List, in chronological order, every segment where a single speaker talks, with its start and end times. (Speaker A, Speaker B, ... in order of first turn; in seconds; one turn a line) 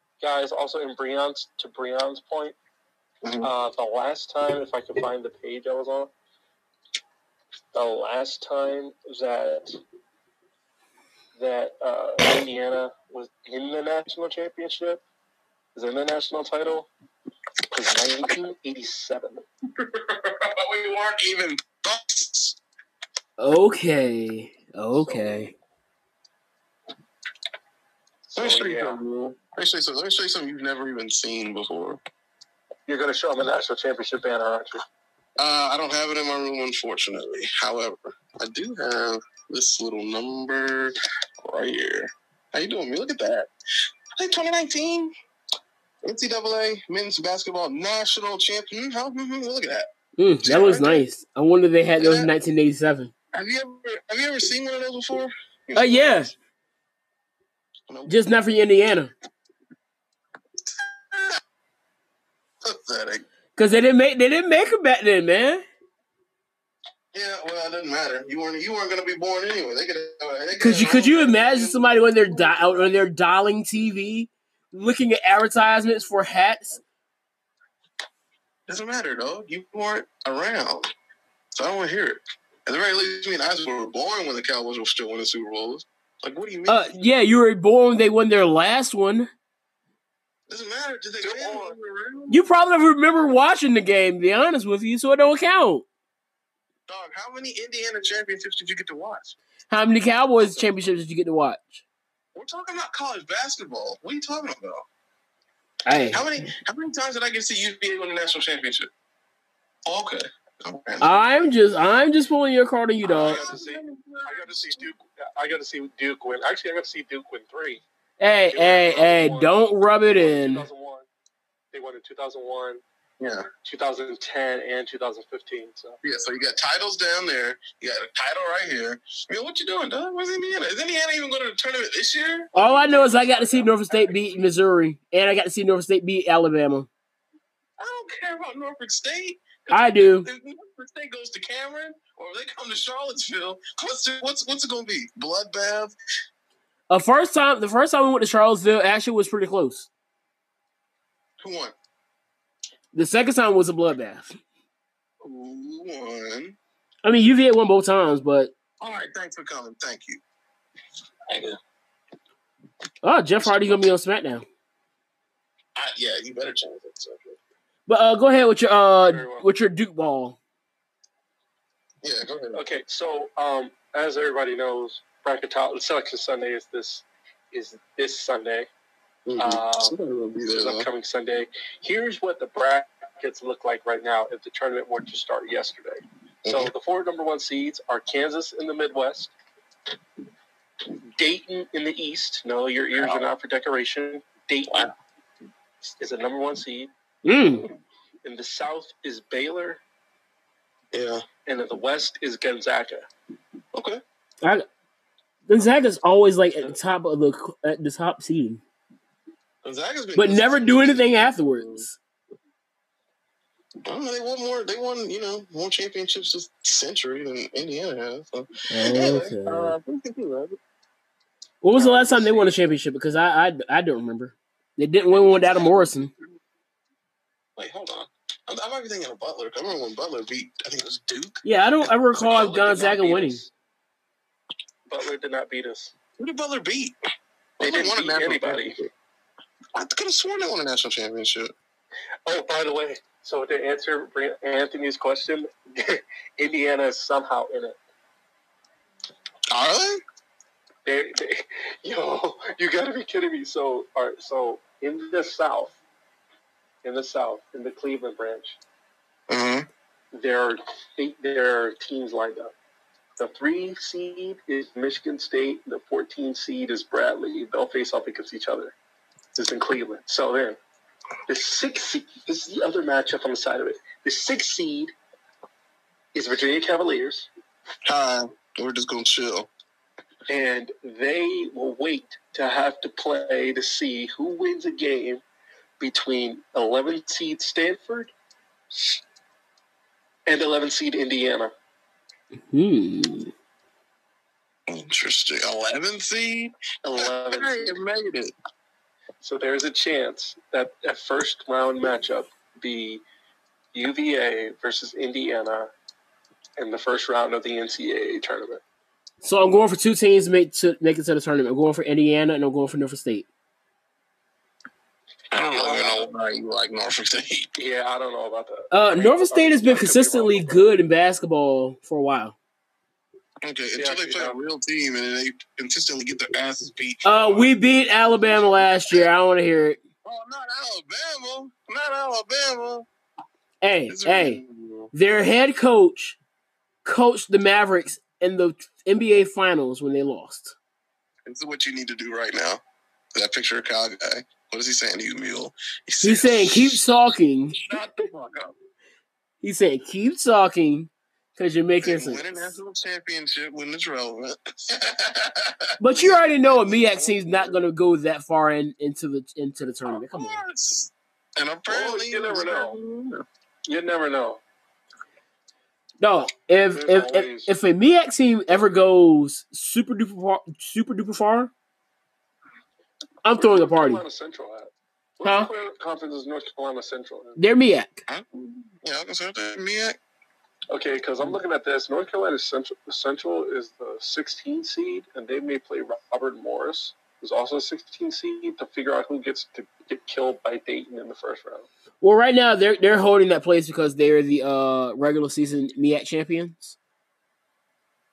Speaker A: 0.2-2.6
Speaker B: 3.2-3.5
Speaker A: 3.4-6.1
Speaker A: 7.7-9.8
Speaker A: 11.4-15.0
Speaker A: 15.8-16.9
Speaker A: 17.7-19.4
Speaker B: 19.8-22.6
Speaker C: 23.4-25.5
Speaker A: 24.9-25.5
Speaker A: 28.3-29.0
Speaker B: 28.4-32.0
Speaker A: 32.9-34.8
Speaker B: 35.4-43.5
Speaker B: 44.2-45.1
Speaker B: 46.0-49.9
Speaker C: 50.2-53.1
Speaker B: 50.4-51.0
Speaker B: 52.0-52.3
Speaker B: 53.3-55.3
Speaker A: 55.7-56.3
Speaker C: 55.8-56.3
Speaker B: 57.9-58.2
Speaker C: 58.1-59.1
Speaker B: 60.6-61.4
Speaker B: 62.6-63.3
Speaker C: 63.6-65.6
Speaker B: 67.1-72.0
Speaker C: 70.6-76.8
Speaker B: 78.7-80.9
Speaker B: 81.6-86.8
Speaker C: 86.7-89.3
Speaker B: 90.5-92.4
Speaker A: 91.2-91.8
Speaker C: 92.3-95.9
Speaker B: 96.9-99.4
Speaker C: 99.7-101.8
Speaker B: 102.3-104.8
Speaker C: 105.8-106.2
Speaker B: 106.1-108.9
Speaker B: 109.9-111.2
Speaker C: 111.0-113.4
Speaker A: 113.0-117.8
Speaker B: 113.2-114.9
Speaker C: 118.2-120.7
Speaker A: 118.5-121.1
Speaker A: 121.7-122.8
Speaker B: 123.2-123.5
Speaker A: 123.7-126.0
Speaker B: 126.0-132.5
Speaker C: 132.6-136.9
Speaker A: 132.6-133.7
Speaker B: 137.8-145.9
Speaker C: 139.7-140.3
Speaker C: 146.9-149.9
Speaker B: 151.4-151.7
Speaker C: 152.9-154.4
Speaker B: 155.2-156.6
Speaker C: 157.0-158.5
Speaker B: 158.8-160.2
Speaker B: 161.3-161.6
Speaker C: 163.0-164.4
Speaker B: 163.4-163.8
Speaker B: 165.8-167.4
Speaker C: 167.9-170.4
Speaker A: 169.1-169.5
Speaker B: 172.0-172.6
Speaker A: 172.6-178.7
Speaker B: 179.3-180.9
Speaker A: 179.4-180.0
Speaker A: 180.5-189.3
Speaker B: 186.4-186.7
Speaker A: 191.2-194.8
Speaker B: 192.9-193.2
Speaker B: 194.7-194.9
Speaker A: 196.0-196.9
Speaker C: 197.2-197.7
Speaker A: 198.2-199.8
Speaker B: 200.9-201.2
Speaker A: 201.5-203.1
Speaker B: 203.7-204.0
Speaker C: 205.5-208.6
Speaker B: 209.6-211.8
Speaker C: 210.2-212.0
Speaker B: 213.8-220.6
Speaker C: 218.7-219.8
Speaker C: 221.6-226.1
Speaker B: 221.8-222.4
Speaker A: 221.8-222.2
Speaker B: 225.1-225.9
Speaker B: 227.6-233.0
Speaker C: 231.4-233.4
Speaker A: 232.3-233.5
Speaker A: 234.9-235.9
Speaker B: 236.2-236.9
Speaker B: 237.6-238.9
Speaker A: 237.6-238.8
Speaker B: 239.8-241.5
Speaker A: 242.3-247.8
Speaker B: 249.5-250.0
Speaker A: 250.8-255.8
Speaker A: 256.8-258.6
Speaker B: 259.3-259.7
Speaker A: 260.1-262.5
Speaker A: 263.2-268.8
Speaker A: 269.4-270.6
Speaker A: 271.3-274.9
Speaker A: 276.1-277.3
Speaker B: 277.9-279.5
Speaker A: 280.3-285.2
Speaker A: 285.8-288.1
Speaker A: 290.3-291.5
Speaker C: 292.5-293.3
Speaker B: 294.7-298.3
Speaker A: 296.8-297.8
Speaker A: 299.2-303.0
Speaker A: 303.7-305.7
Speaker A: 306.6-308.6
Speaker C: 309.2-313.3
Speaker B: 315.3-317.5
Speaker A: 315.5-316.1
Speaker A: 317.6-320.6
Speaker C: 318.7-322.4
Speaker B: 323.4-327.5
Speaker A: 323.8-324.4
Speaker C: 327.0-329.8
Speaker B: 330.0-332.9
Speaker C: 333.6-334.4
Speaker B: 333.9-334.9
Speaker C: 334.9-336.2
Speaker C: 336.8-340.6
Speaker B: 341.2-342.6
Speaker B: 343.1-346.8
Speaker C: 346.0-347.6
Speaker B: 347.6-348.6
Speaker C: 349.4-352.6
Speaker B: 351.8-357.6
Speaker C: 355.8-360.4
Speaker B: 359.9-363.2
Speaker A: 361.7-362.8
Speaker A: 363.7-364.4
Speaker C: 366.0-371.5
Speaker A: 366.7-367.5
Speaker C: 373.2-374.0
Speaker A: 373.3-377.4
Speaker C: 375.2-375.5
Speaker C: 377.4-378.0
Speaker B: 378.1-380.0
Speaker A: 380.7-391.7
Speaker C: 392.0-396.8